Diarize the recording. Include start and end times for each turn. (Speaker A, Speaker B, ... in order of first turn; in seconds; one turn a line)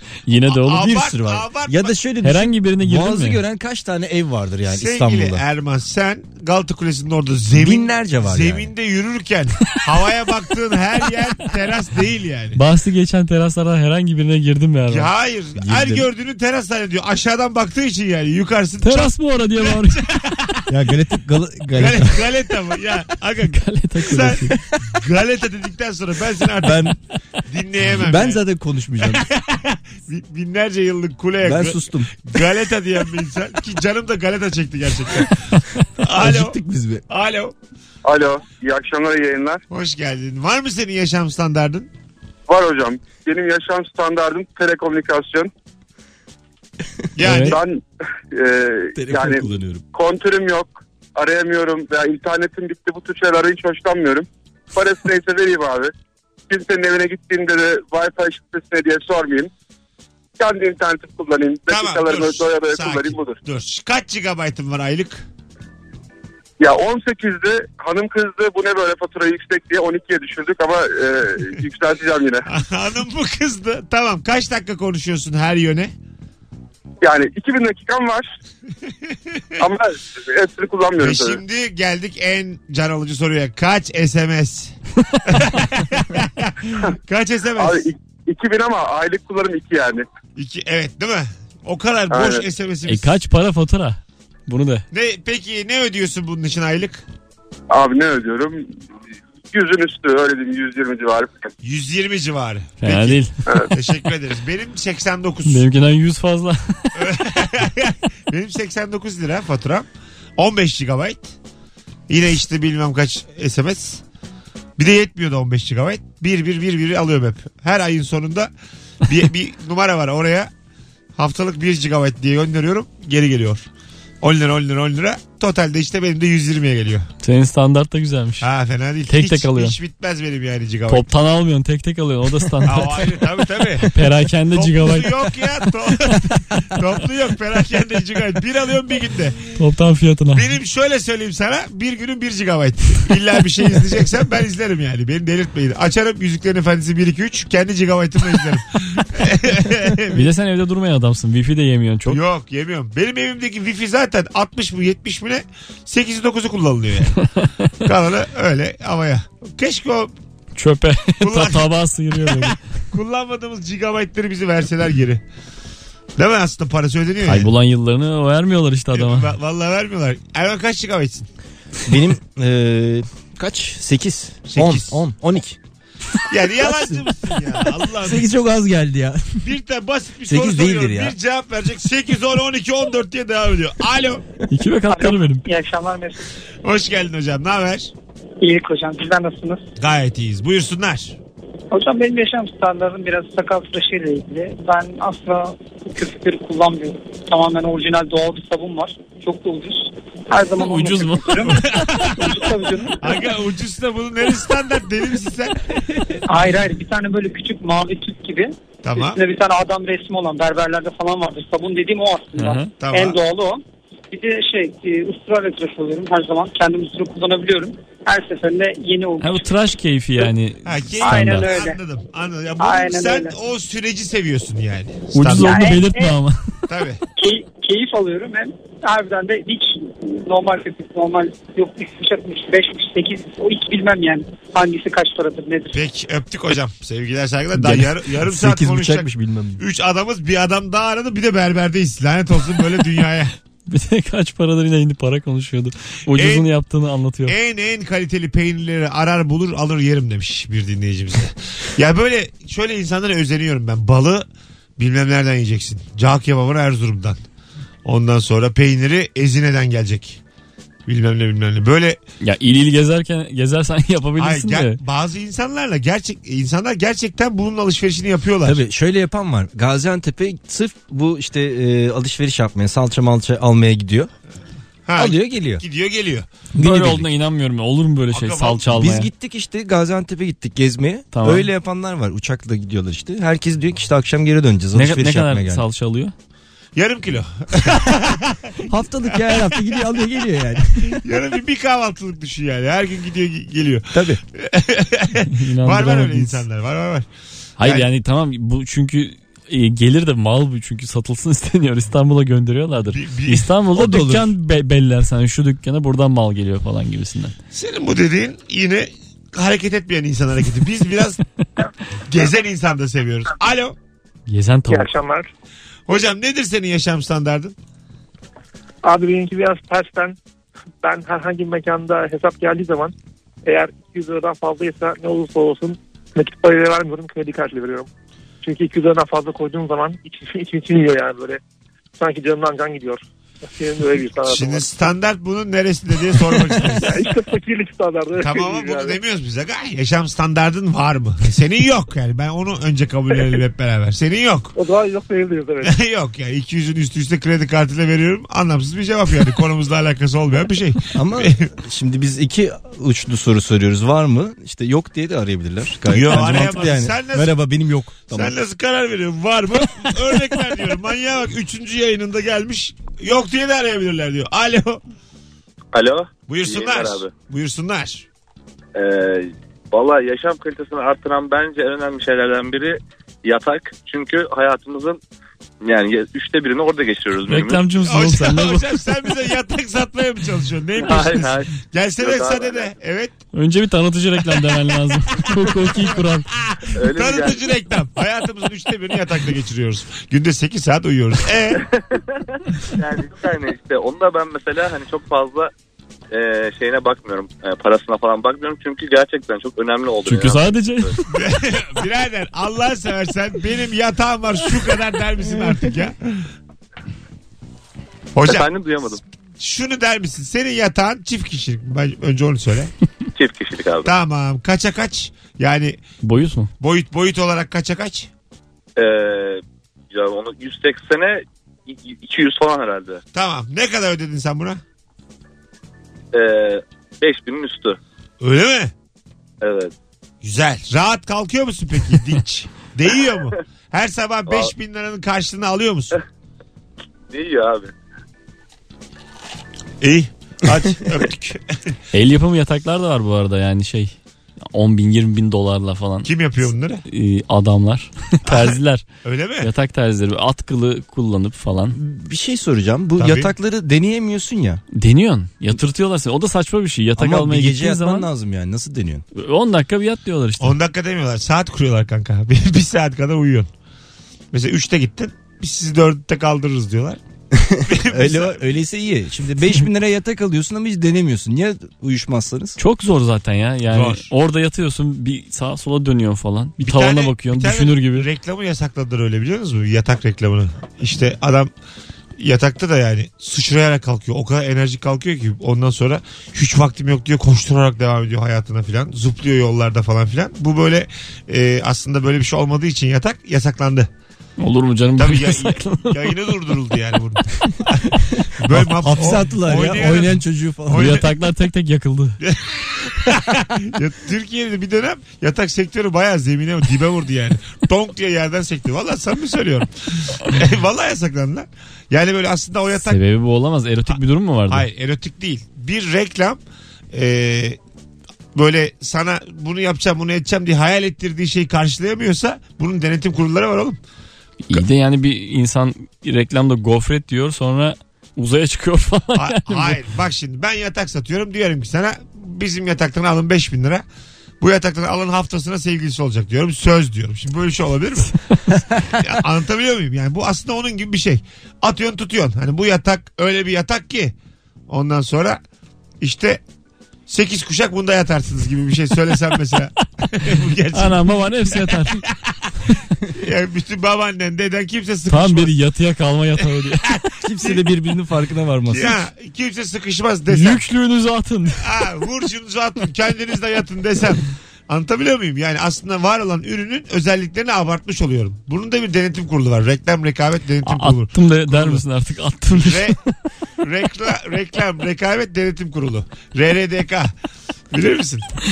Speaker A: 0.3-1.1
Speaker B: 0.5-2.0
Speaker C: 0.9-5.4
Speaker A: 2.2-3.4
Speaker B: 4.7-12.6
Speaker C: 7.5-8.7
Speaker A: 12.6-15.1
Speaker B: 14.9-20.7
Speaker C: 15.6-16.1
Speaker A: 18.8-20.0
Speaker C: 20.7-22.3
Speaker B: 21.7-28.4
Speaker A: 23.4-24.6
Speaker C: 24.6-24.9
Speaker C: 26.6-26.9
Speaker C: 27.9-29.3
Speaker B: 29.1-35.5
Speaker C: 31.4-32.2
Speaker B: 36.0-36.6
Speaker C: 36.2-37.0
Speaker B: 37.1-37.5
Speaker D: 38.0-39.6
Speaker B: 39.7-41.9
Speaker D: 42.5-45.5
Speaker B: 47.2-47.6
Speaker A: 47.2-47.6
Speaker D: 47.3-55.9
Speaker C: 49.0-49.8
Speaker D: 56.5-59.5
Speaker D: 60.4-63.4
Speaker B: 61.7-65.3
Speaker D: 66.6-72.5
Speaker B: 72.5-75.9
Speaker D: 77.0-78.3
Speaker B: 78.9-79.6
Speaker D: 79.6-81.4
Speaker B: 81.0-87.8
Speaker A: 85.1-85.4
Speaker D: 87.6-90.1
Speaker B: 90.4-93.1
Speaker D: 92.1-92.5
Speaker A: 92.8-94.9
Speaker B: 94.9-97.0
Speaker D: 97.7-98.8
Speaker D: 99.5-101.5
Speaker B: 101.6-105.7
Speaker A: 102.8-103.3
Speaker A: 105.5-107.1
Speaker B: 107.0-111.3
Speaker B: 112.1-114.0
Speaker B: 114.8-118.5
Speaker B: 119.0-120.5
Speaker B: 121.2-123.7
Speaker B: 124.2-127.1
Speaker A: 127.2-128.5
Speaker B: 128.4-131.1
Speaker A: 129.1-129.8
Speaker A: 130.9-133.3
Speaker B: 132.6-134.0
Speaker A: 133.8-136.8
Speaker B: 134.5-139.4
Speaker A: 139.6-140.5
Speaker B: 140.3-150.3
Speaker A: 150.1-152.2
Speaker B: 152.1-157.2
Speaker A: 157.2-157.8
Speaker B: 157.8-160.1
Speaker A: 160.6-162.6
Speaker B: 161.2-165.2
Speaker B: 166.2-167.5
Speaker A: 167.2-169.3
Speaker B: 168.9-171.3
Speaker C: 171.9-175.6
Speaker B: 174.5-175.0
Speaker B: 176.3-178.3
Speaker C: 176.7-177.0
Speaker C: 178.0-179.5
Speaker B: 179.4-184.2
Speaker C: 180.3-181.2
Speaker A: 184.5-185.5
Speaker E: 184.9-186.2
Speaker B: 186.6-187.9
Speaker E: 188.4-189.6
Speaker B: 189.8-191.2
Speaker E: 191.7-203.2
Speaker A: 200.6-202.1
Speaker B: 201.6-202.2
Speaker B: 203.0-205.7
Speaker E: 206.3-219.5
Speaker B: 208.8-209.2
Speaker A: 212.4-212.7
Speaker B: 212.8-213.2
Speaker A: 219.2-221.5
Speaker B: 220.7-225.6
Speaker E: 221.0-221.8
Speaker E: 222.6-223.3
Speaker A: 225.1-226.6
Speaker E: 225.3-226.2
Speaker B: 226.7-227.0
Speaker E: 227.2-235.8
Speaker B: 235.7-243.3
Speaker C: 237.6-239.6
Speaker A: 243.7-247.3
Speaker B: 246.1-246.5
Speaker B: 247.3-254.3
Speaker B: 254.8-257.2
Speaker B: 257.8-260.2
Speaker B: 260.9-262.0
Speaker A: 262.2-264.8
Speaker B: 264.2-268.6
Speaker C: 268.4-274.1
Speaker B: 274.9-276.3
Speaker C: 275.0-275.6
Speaker C: 276.6-277.1
Speaker A: 276.6-279.1
Speaker B: 278.1-278.6
Speaker C: 278.7-285.6
Speaker A: 281.1-281.5
Speaker A: 284.7-286.1
Speaker B: 286.8-289.8
Speaker C: 288.7-291.0
Speaker B: 290.8-297.1
Speaker C: 293.9-294.2
Speaker A: 295.3-296.4
Speaker A: 297.6-307.3
Speaker B: 297.6-297.9
Speaker B: 302.9-303.5
Speaker C: 303.7-304.3
Speaker B: 307.5-311.2
Speaker B: 312.1-313.8
Speaker A: 314.3-314.9
Speaker F: 314.7-315.3
Speaker B: 315.9-317.6
Speaker F: 318.8-320.2
Speaker F: 320.8-327.9
Speaker F: 328.4-331.4
Speaker F: 332.0-334.9
Speaker B: 334.3-337.0
Speaker F: 336.1-339.0
Speaker B: 338.2-344.5
Speaker F: 344.6-345.8
Speaker B: 345.6-351.5
Speaker C: 350.9-358.4
Speaker B: 355.9-357.3
Speaker B: 358.1-364.8
Speaker G: 365.7-367.1
Speaker B: 366.3-368.1
Speaker G: 368.8-375.0
Speaker G: 375.6-377.6
Speaker A: 377.3-378.6
Speaker B: 377.8-383.2
Speaker G: 380.8-382.7
Speaker A: 383.3-386.3
Speaker B: 385.7-391.7
Speaker G: 386.7-387.5
Speaker G: 391.6-395.5
Speaker G: 396.1-400.9
Speaker A: 400.1-401.0
Speaker B: 401.1-406.3
Speaker B: 408.1-408.5
Speaker G: 408.2-409.0
Speaker B: 409.4-412.7
Speaker G: 413.1-413.9
Speaker B: 413.9-415.8
Speaker A: 416.0-416.5
Speaker B: 416.6-418.1
Speaker G: 418.8-423.0
Speaker B: 423.1-424.6
Speaker G: 426.1-427.8
Speaker B: 428.2-428.7
Speaker G: 429.4-429.7
Speaker B: 430.2-436.0
Speaker G: 437.1-437.7
Speaker B: 439.8-441.8
Speaker A: 441.9-443.9
Speaker A: 444.5-446.1
Speaker B: 446.0-446.8
Speaker A: 446.9-448.9
Speaker B: 448.3-449.5
Speaker A: 449.4-451.8
Speaker C: 451.7-454.6
Speaker B: 453.0-453.3
Speaker A: 454.8-458.1
Speaker C: 457.0-459.1
Speaker A: 459.1-460.5
Speaker B: 460.4-463.5
Speaker B: 464.3-467.0
Speaker C: 467.3-472.6
Speaker B: 467.7-468.4
Speaker A: 472.6-478.1
Speaker B: 473.7-474.1
Speaker B: 476.6-481.5
Speaker B: 482.2-493.9
Speaker A: 494.4-496.2
Speaker B: 495.0-501.1
Speaker C: 498.2-501.0
Speaker A: 500.7-502.2
Speaker B: 502.2-513.0
Speaker A: 512.8-514.6
Speaker B: 513.9-516.4
Speaker B: 516.9-517.6
Speaker B: 518.4-523.8
Speaker A: 524.5-529.8
Speaker B: 529.1-533.8
Speaker B: 534.4-538.1
Speaker B: 538.9-544.1
Speaker B: 544.7-545.4
Speaker B: 546.0-546.4
Speaker B: 547.1-552.4
Speaker A: 550.7-552.1
Speaker B: 553.1-555.5
Speaker A: 555.1-557.0
Speaker B: 556.9-557.6
Speaker C: 557.2-559.0
Speaker B: 558.7-560.6
Speaker A: 560.3-561.7
Speaker B: 561.6-571.8
Speaker A: 570.6-573.1
Speaker B: 572.5-573.0
Speaker B: 573.6-577.1
Speaker B: 577.7-578.4